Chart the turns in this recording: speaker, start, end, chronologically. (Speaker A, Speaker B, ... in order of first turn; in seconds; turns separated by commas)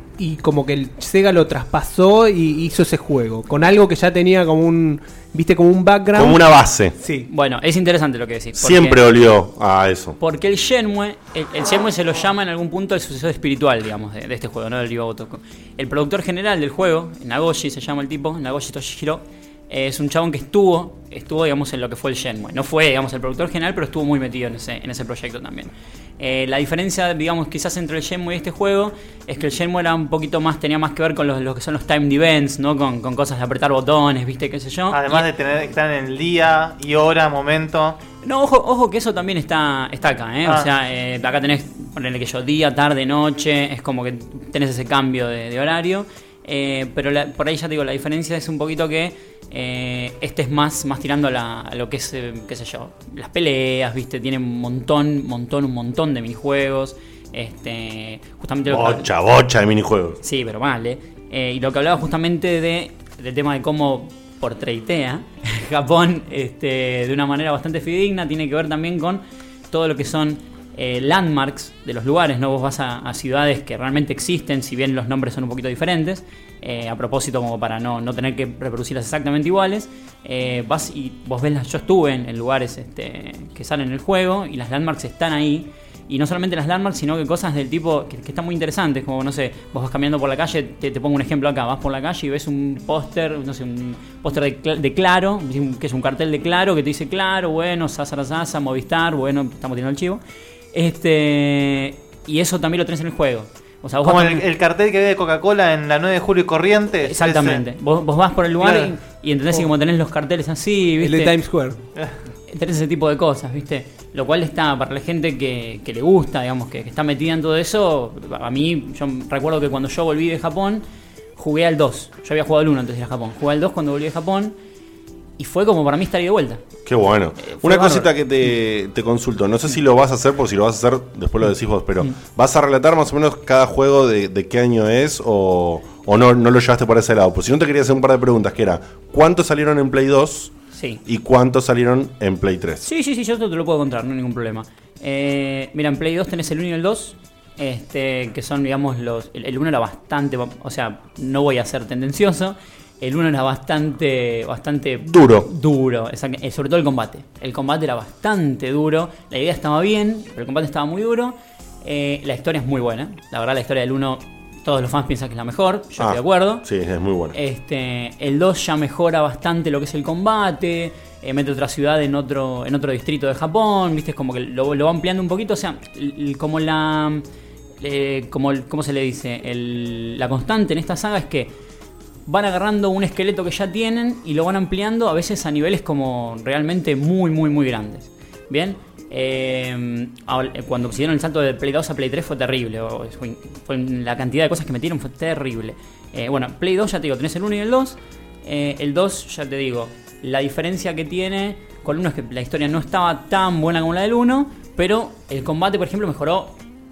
Speaker A: 0.2-6.4, Speaker B: 6.1-7.0, Speaker A: 7.0-7.3, Speaker C: 7.3-9.0, Speaker B: 8.6-10.2, Speaker C: 10.2-35.3, Speaker D: 34.9-38.0, Speaker C: 38.2-59.1, Speaker B: 58.7-60.2, Speaker C: 60.2-100.2, Speaker C: 100.7-104.5, Speaker D: 104.0-107.6, Speaker C: 107.0-111.3, Speaker D: 108.6-108.9, Speaker A: 111.0-111.8, Speaker C: 112.5-120.8, Speaker C: 121.3-124.5, Speaker C: 125.4-126.6, Speaker B: 126.8-140.5, Speaker C: 127.4-128.1, Speaker C: 140.7-141.0, Speaker B: 141.1-142.9, Speaker C: 142.8-166.6, Speaker B: 155.0-155.5, Speaker B: 166.0-167.3, Speaker C: 167.3-177.2, Speaker C: 177.8-181.5, Speaker C: 182.3-206.5